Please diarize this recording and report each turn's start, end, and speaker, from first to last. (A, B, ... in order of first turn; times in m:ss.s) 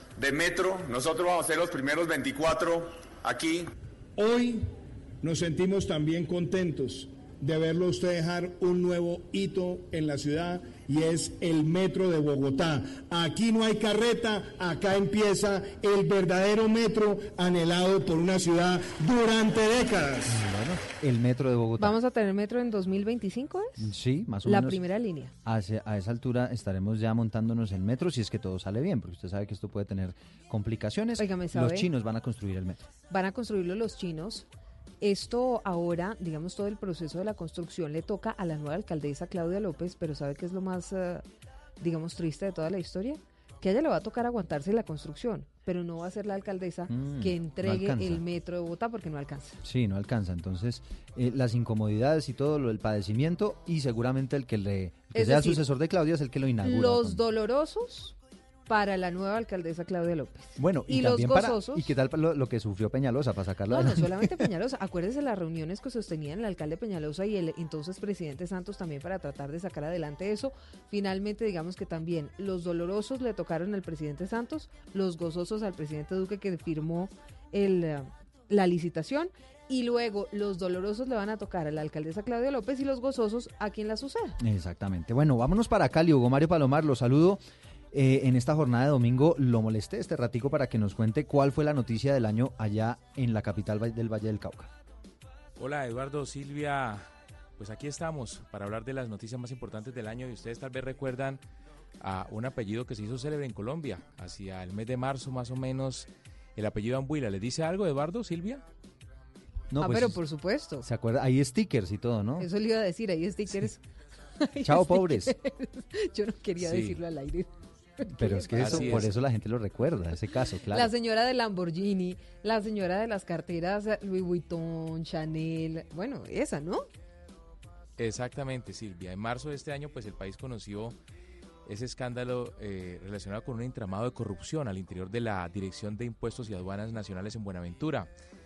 0:00.2-0:03.7 A
0:04.2-0:04.7 B
0:05.2-0:20.4 B
0:20.3-0:21.9 C
0:21.8-0:23.8 D
0:23.8-0:24.8 C
0:24.4-0:25.3 D
0:25.4-0:32.8 C
0:31.2-0:31.9 D
0:33.1-0:34.5 D
0:35.0-0:41.2 D
0:41.8-0:49.6 D
0:46.9-0:48.2 C
0:49.6-0:57.2 C
0:55.1-0:55.6 D
0:56.6-0:58.2 D
0:58.7-1:01.9 D
1:00.6-1:04.3 C
1:03.7-1:24.4 D
1:24.4-1:27.4 C
1:27.9-1:34.7 C
1:35.6-1:37.1 E
1:37.6-1:41.4 E
1:42.0-1:48.6 E
1:49.7-1:50.2 C
1:49.8-1:50.8 D
1:50.8-1:52.5 C
1:52.4-1:53.8 D
1:54.4-1:59.1 D
1:54.6-1:55.4 C
1:56.6-1:57.0 E
1:58.1-2:00.9 C
1:58.6-1:59.1 E
2:00.7-2:06.9 D
2:08.0-2:11.0 E
2:11.7-2:18.1 E